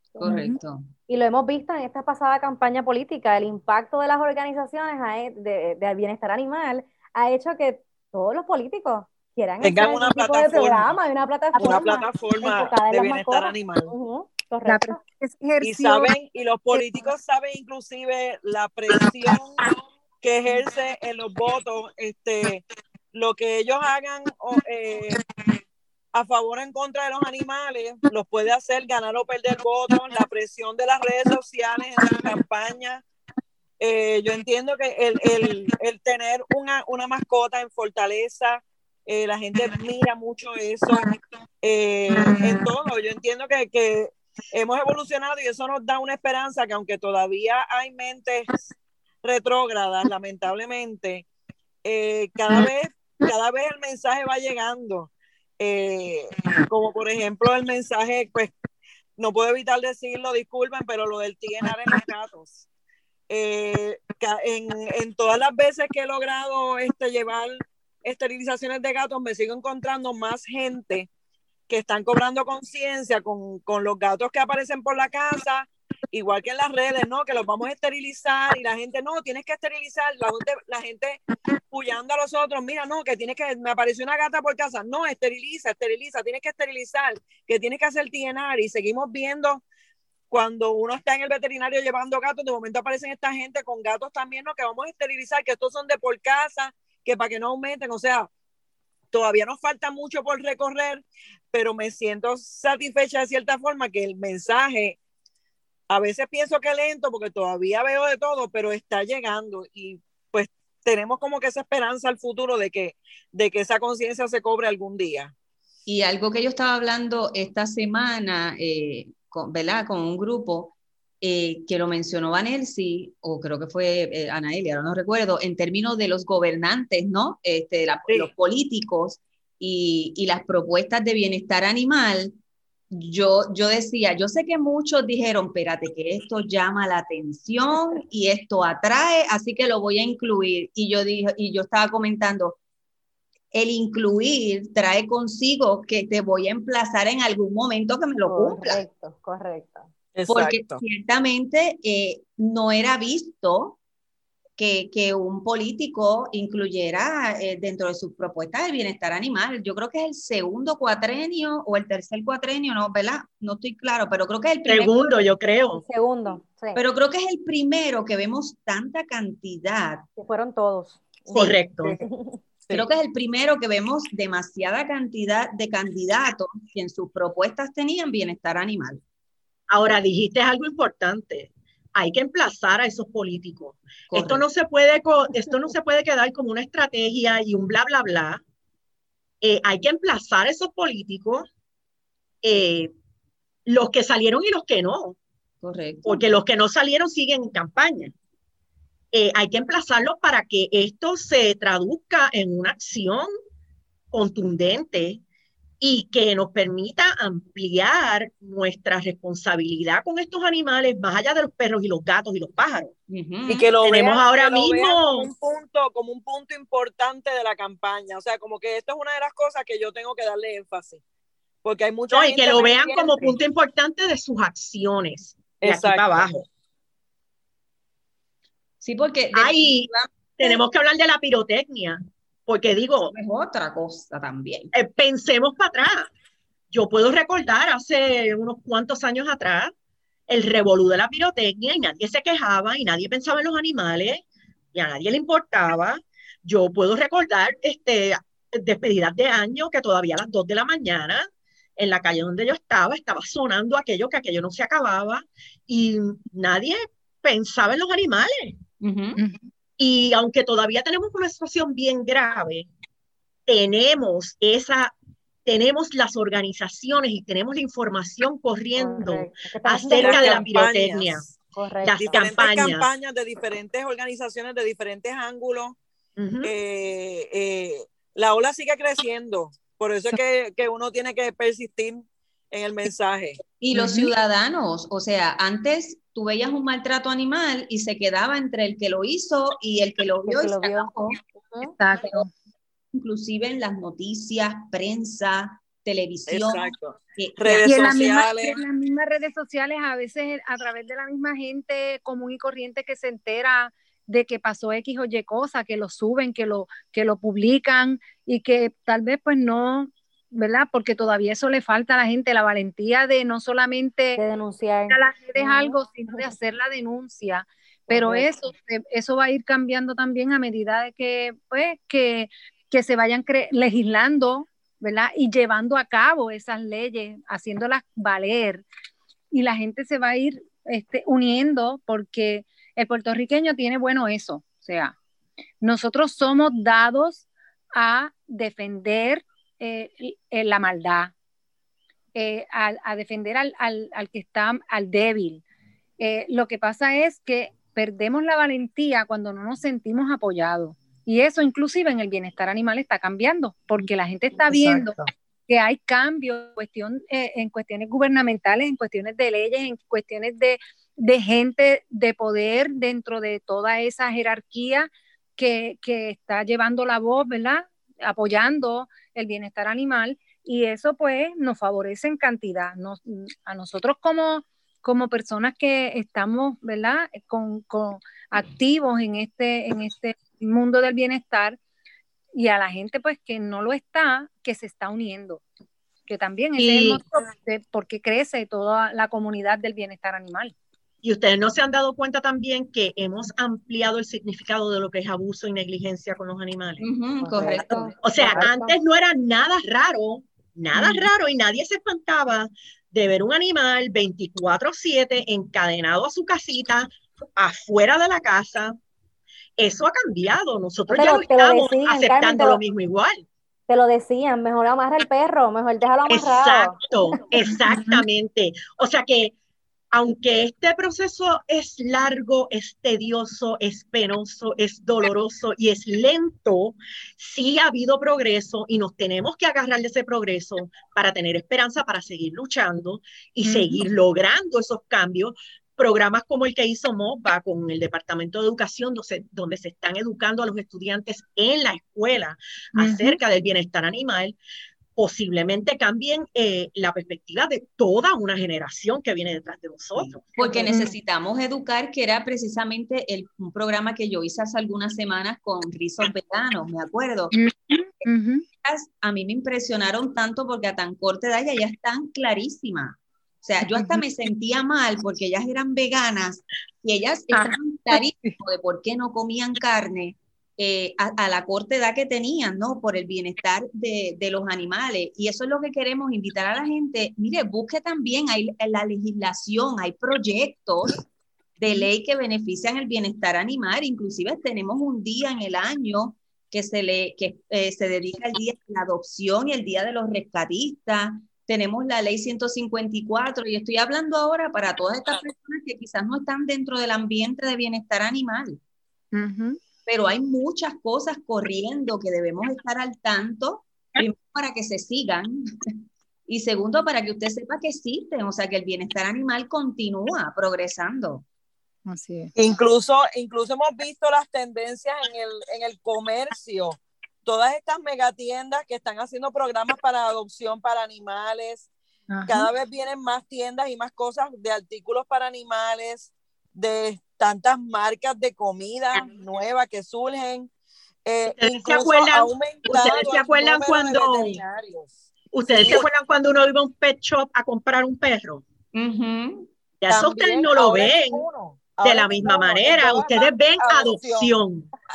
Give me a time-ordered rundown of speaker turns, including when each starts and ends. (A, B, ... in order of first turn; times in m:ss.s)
0:00.2-0:00.9 A
0:00.2-0:00.6 B
0:01.1-0:15.0 C
0:09.6-0:11.0 D
0:11.6-0:11.8 B
0:11.6-0:13.9 D
0:14.6-0:16.1 B
0:15.6-0:19.6 D
0:20.2-0:25.2 D
0:26.1-0:33.0 D
0:33.8-0:41.0 D
0:41.6-0:48.5 D
0:49.2-0:51.2 D
0:51.8-0:58.5 D
0:59.2-1:02.6 D
1:03.3-1:11.1 D
1:11.7-1:21.2 D
1:21.7-1:29.6 D
1:30.3-1:38.3 D
1:39.1-1:45.0 D
1:45.9-1:55.3 D
1:55.9-2:12.4 A
2:12.9-2:22.6 A
2:23.5-2:28.8 A
2:28.3-2:29.9 C
2:30.1-2:30.8 D
2:30.3-2:33.8 A
2:34.6-2:45.0 A
2:44.6-2:45.8 E
2:45.7-2:46.8 C
2:46.7-2:50.0 A
2:50.2-2:52.4 C
2:51.3-2:51.6 A
2:51.3-2:52.0 E
2:52.7-2:59.0 A
2:59.7-3:08.4 E
3:04.1-3:04.4 A
3:09.4-3:11.4 E
3:12.4-3:12.9 E
3:13.6-3:15.2 E
3:15.6-3:16.4 A
3:16.0-3:18.1 E
3:19.1-3:23.3 E
3:24.1-3:25.2 E
3:25.8-3:32.9 E
3:33.1-3:33.7 A
3:33.5-3:41.0 D
3:33.8-3:35.3 E
3:41.6-3:43.2 D
3:42.1-3:46.4 E
3:43.0-3:43.3 A
3:45.6-3:46.3 D
3:48.8-3:50.6 A
3:49.3-3:53.1 E
3:53.1-3:54.7 A
3:54.7-3:56.1 E
3:56.7-3:59.7 E
4:00.3-4:11.3 E
4:11.8-4:18.6 E
4:18.8-4:19.2 A
4:19.2-4:19.4 B
4:19.8-4:22.7 E
4:23.5-4:24.9 E
4:25.4-4:31.2 E
4:28.8-4:30.5 C
4:29.9-4:31.2 D
4:31.5-4:32.4 C
4:31.8-4:32.9 E
4:32.0-4:35.8 D
4:36.2-4:36.5 E
4:36.4-4:43.4 D
4:43.6-4:51.2 A
4:43.7-4:44.1 B
4:50.2-4:50.9 C
4:51.4-4:51.7 C
4:51.8-4:52.3 B
4:52.9-4:57.9 A
4:56.3-4:58.6 D
4:57.6-5:14.2 B
5:14.2-5:16.3 C
5:14.9-5:28.6 B
5:17.9-5:18.3 C
5:29.3-5:35.0 B
5:35.6-5:41.1 B
5:42.1-5:45.4 B
5:46.0-5:55.0 B
5:54.4-5:55.1 D
5:55.5-6:21.6 B
6:22.3-6:25.4 B
6:26.1-6:30.5 B
6:26.6-6:27.0 E
6:31.0-6:36.8 E
6:36.8-6:37.9 A
6:37.2-6:38.8 C
6:38.0-6:48.8 E
6:40.8-6:41.0 B
6:49.6-6:53.2 E
6:50.9-6:52.6 C
6:53.7-6:56.8 C
6:56.1-6:59.3 E
6:57.7-6:58.0 B
6:59.9-7:24.4 E
7:13.4-7:13.9 B
7:22.8-7:23.2 B
7:25.0-7:30.2 E
7:30.0-7:37.3 A
7:30.4-7:30.9 B
7:37.3-7:38.4 B
7:38.6-8:01.0 A
7:43.6-7:44.0 B
7:47.3-7:48.3 B
8:01.6-8:18.6 A
8:19.1-8:19.6 B
8:19.8-8:25.7 A
8:26.3-8:31.2 A
8:31.8-8:32.3 B
8:32.4-8:41.7 D
8:42.1-8:42.5 B
8:42.3-8:50.5 D
8:51.0-8:55.8 D
8:51.3-8:54.4 E
8:55.3-8:58.4 E
8:58.7-8:59.5 A
8:59.8-9:01.2 E
8:59.9-9:04.3 D
9:01.8-9:04.7 E